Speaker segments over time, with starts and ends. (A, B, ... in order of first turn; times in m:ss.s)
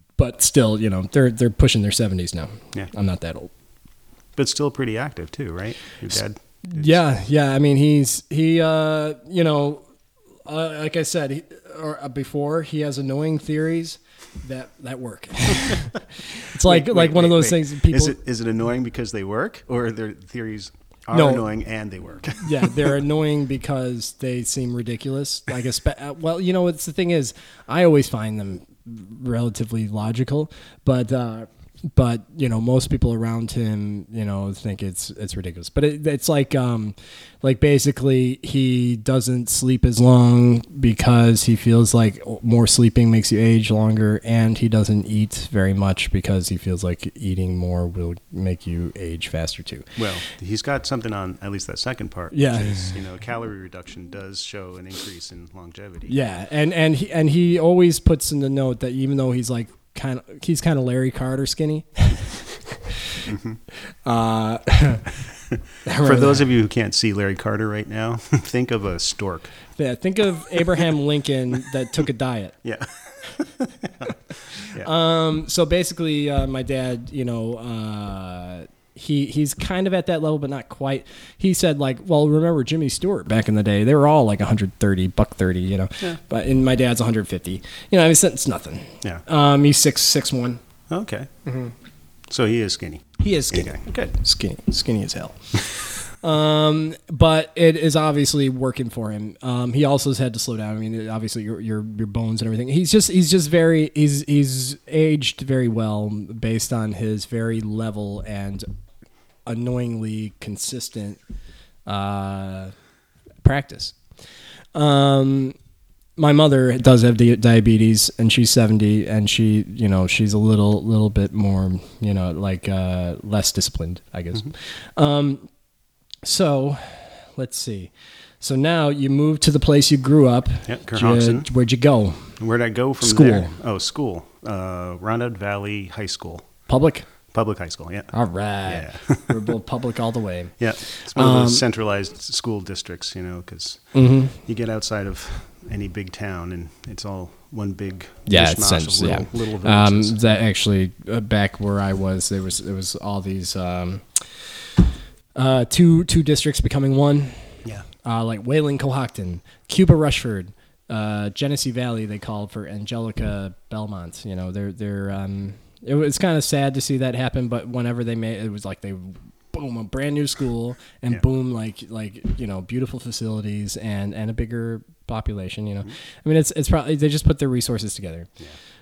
0:00.2-0:03.5 A
0:04.4-0:07.0 B
0:06.6-0:09.9 A
0:10.5-0:18.2 A
0:16.6-0:22.9 B
0:21.1-0:21.5 A
0:22.4-0:49.9 A
0:50.0-0:56.2 B
0:52.3-0:53.0 A
0:56.1-1:03.2 A
1:03.3-1:03.6 B
1:04.0-1:05.1 A
1:05.8-1:06.4 A
1:06.0-1:09.5 B
1:09.8-1:12.6 A
1:12.6-1:14.1 B
1:14.7-1:30.6 A
1:30.9-1:31.3 B
1:31.5-1:31.7 A
1:32.3-1:34.2 B
1:33.2-1:48.7 A
1:49.5-1:51.2 A
1:51.9-1:52.7 A
1:53.4-1:54.0 A
1:54.7-1:55.6 A
1:56.2-2:05.5 A
2:06.2-2:12.3 A
2:10.7-2:11.5 B
2:12.4-2:16.5 B
2:13.0-2:13.5 A
2:16.7-2:17.1 A
2:17.3-2:18.1 B
2:18.1-2:21.6 A
2:18.6-2:19.4 B
2:20.6-2:30.4 B
2:23.9-2:24.4 A
2:28.3-2:34.6 A
2:35.4-2:58.3 A